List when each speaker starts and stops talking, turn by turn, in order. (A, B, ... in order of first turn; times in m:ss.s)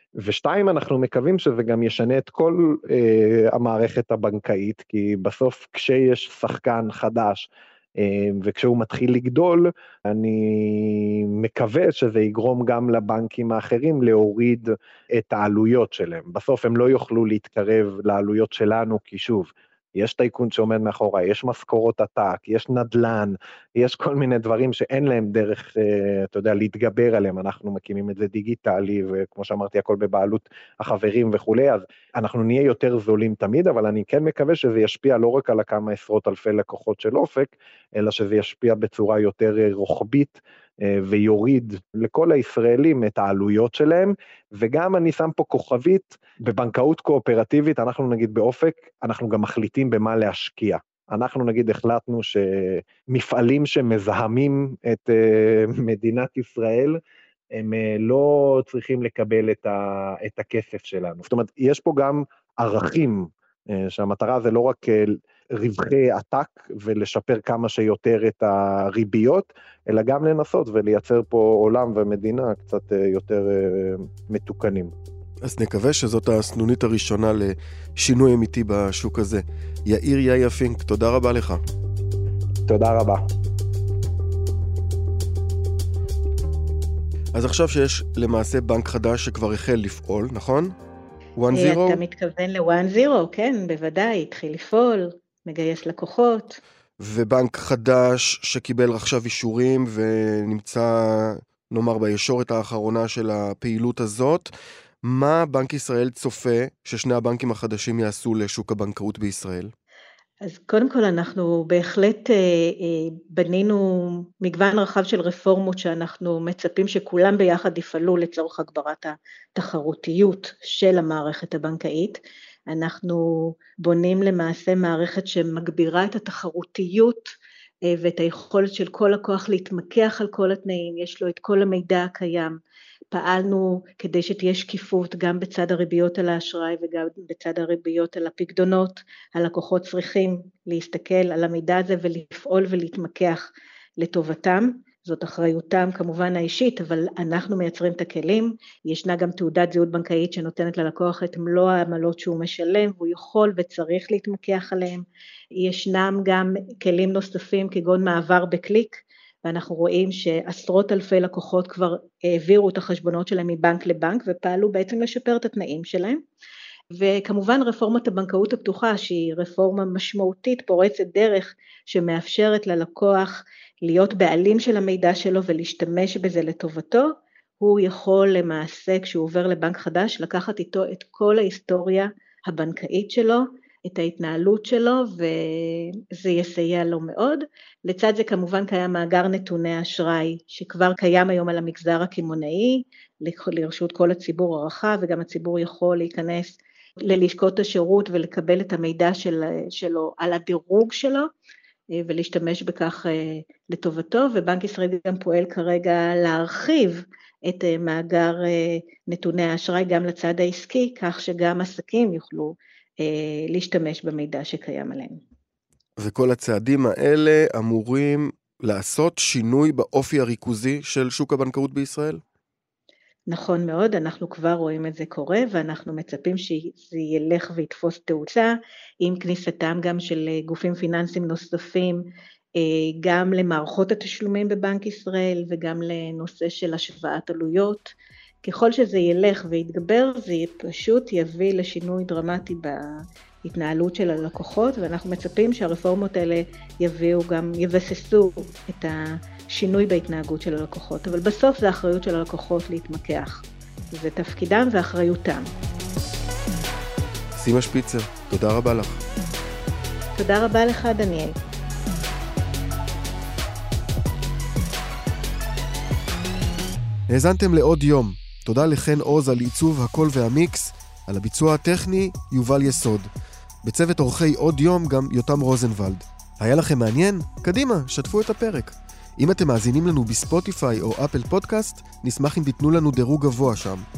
0:00.2-0:57.0 A
0:57.5-1:14.9 A
1:15.4-1:21.6 B
1:22.7-1:23.2 A
1:27.3-1:30.7 B
1:31.4-1:32.0 B
1:31.5-1:36.6 C
1:37.0-1:44.5 B
1:45.0-1:49.7 B
1:50.4-2:07.3 C
2:07.8-2:12.6 C
2:13.1-2:23.4 C
2:24.0-2:35.0 C
2:35.6-2:46.2 C
2:46.9-3:21.3 C
3:21.9-3:35.2 C
3:36.0-3:42.2 B
3:43.3-3:52.0 C
3:52.6-4:02.8 C
4:03.4-4:15.5 C
4:17.4-4:19.0 B
4:20.2-4:21.3 C
4:27.1-4:33.1 B
4:33.6-4:43.8 B